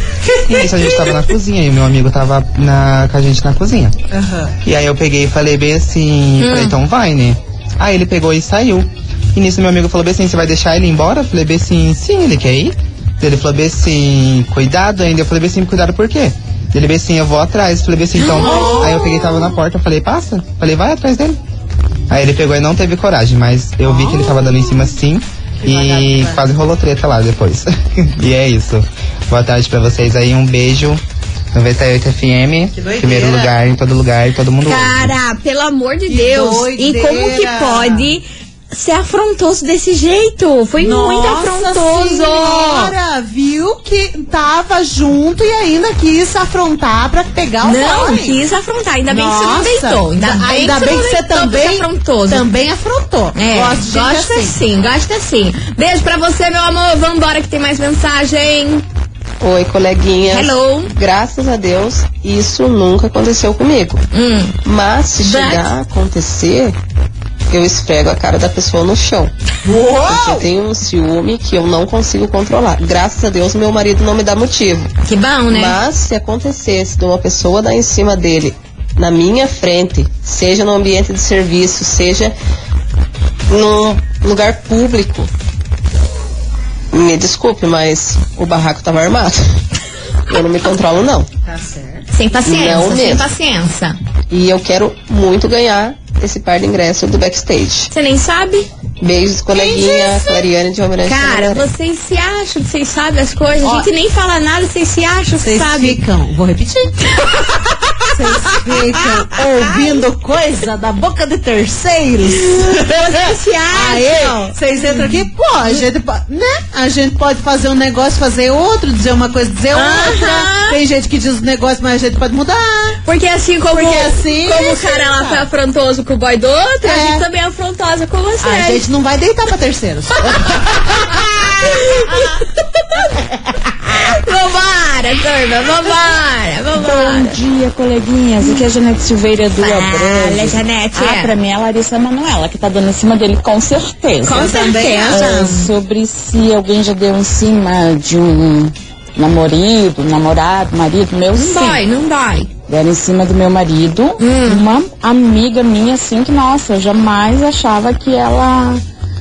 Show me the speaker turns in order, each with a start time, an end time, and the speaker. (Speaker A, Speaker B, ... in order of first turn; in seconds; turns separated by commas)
Speaker A: 0.3-1.2, Speaker B: 0.5-4.0, Speaker A: 4.1-4.5, Speaker B: 4.6-21.4, Speaker C: 6.4-6.8, Speaker C: 18.2-18.7, Speaker A: 18.3-19.5, Speaker B: 22.1-31.0, Speaker A: 23.8-24.6, Speaker A: 25.6-26.4, Speaker B: 31.5-35.1, Speaker A: 32.7-33.5, Speaker C: 34.6-42.9, Speaker A: 36.1-38.1, Speaker A: 40.8-48.4, Speaker C: 47.6-52.5, Speaker A: 49.1-54.6, Speaker C: 53.3-58.8, Speaker D: 59.4-64.0, Speaker C: 60.3-60.9, Speaker C: 64.1-64.6, Speaker D: 64.6-66.8, Speaker C: 65.2-65.7, Speaker D: 67.5-69.3, Speaker A: 69.6-70.5, Speaker D: 70.0-74.9, Speaker C: 75.0-75.8, Speaker D: 75.5-82.3, Speaker D: 83.5-85.3, Speaker D: 86.9-89.6, Speaker D: 90.3-91.3, Speaker A: 91.5-92.0, Speaker C: 92.1-94.0, Speaker D: 92.4-93.3, Speaker D: 94.3-97.9, Speaker C: 97.9-98.7, Speaker D: 99.0-101.7, Speaker C: 99.5-100.4, Speaker C: 101.0-106.0, Speaker A: 103.6-103.9, Speaker A: 105.4-107.2, Speaker A: 108.1-123.0, Speaker C: 108.4-110.0, Speaker C: 112.4-115.8, Speaker C: 119.7-120.8, Speaker C: 123.0-128.8, Speaker A: 123.7-125.5, Speaker A: 126.8-127.2, Speaker A: 128.4-132.4, Speaker C: 130.2-133.1, Speaker A: 133.1-134.2, Speaker C: 134.0-137.4, Speaker E: 136.7-151.8, Speaker C: 139.6-141.3, Speaker C: 144.2-145.7, Speaker A: 144.2-145.7, Speaker C: 151.3-152.5, Speaker E: 152.7-158.8, Speaker C: 154.2-154.6